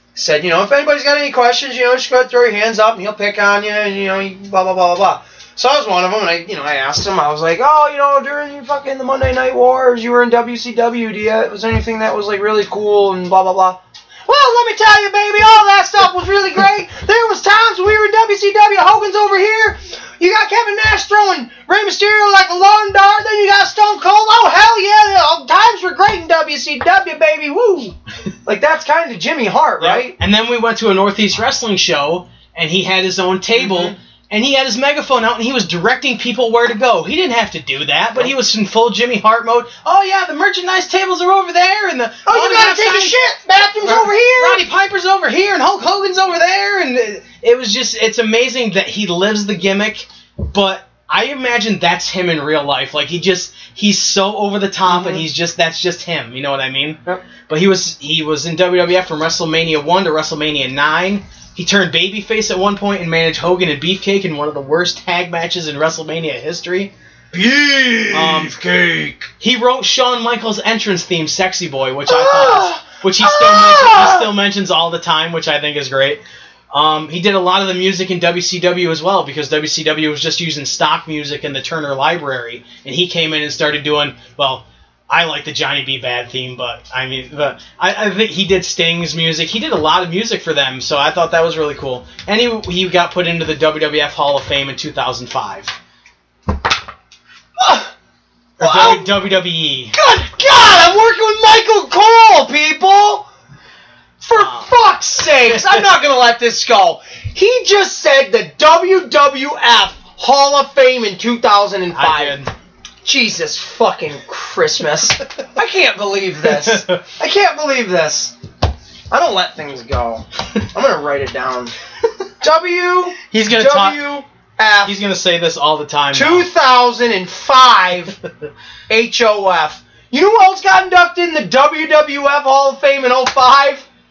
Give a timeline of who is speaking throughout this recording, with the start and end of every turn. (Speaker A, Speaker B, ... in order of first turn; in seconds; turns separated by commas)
Speaker A: 0.1-30.2, Speaker B: 29.8-43.2, Speaker A: 33.5-33.9, Speaker A: 42.3-44.6, Speaker B: 43.8-66.9, Speaker A: 54.9-55.3, Speaker A: 67.3-69.3, Speaker B: 68.1-68.6, Speaker B: 69.4-76.2, Speaker A: 72.1-74.3, Speaker B: 76.7-95.8, Speaker A: 97.6-97.9, Speaker A: 98.6-99.2, Speaker B: 98.6-100.0, Speaker A: 99.9-103.3, Speaker A: 104.2-112.4, Speaker B: 104.3-104.7, Speaker B: 105.4-105.8, Speaker B: 111.9-112.5, Speaker A: 113.0-118.4, Speaker B: 116.5-117.0, Speaker A: 119.1-121.7, Speaker A: 122.4-125.0, Speaker B: 123.3-124.0, Speaker B: 124.8-126.5, Speaker A: 126.1-128.2, Speaker A: 128.9-133.9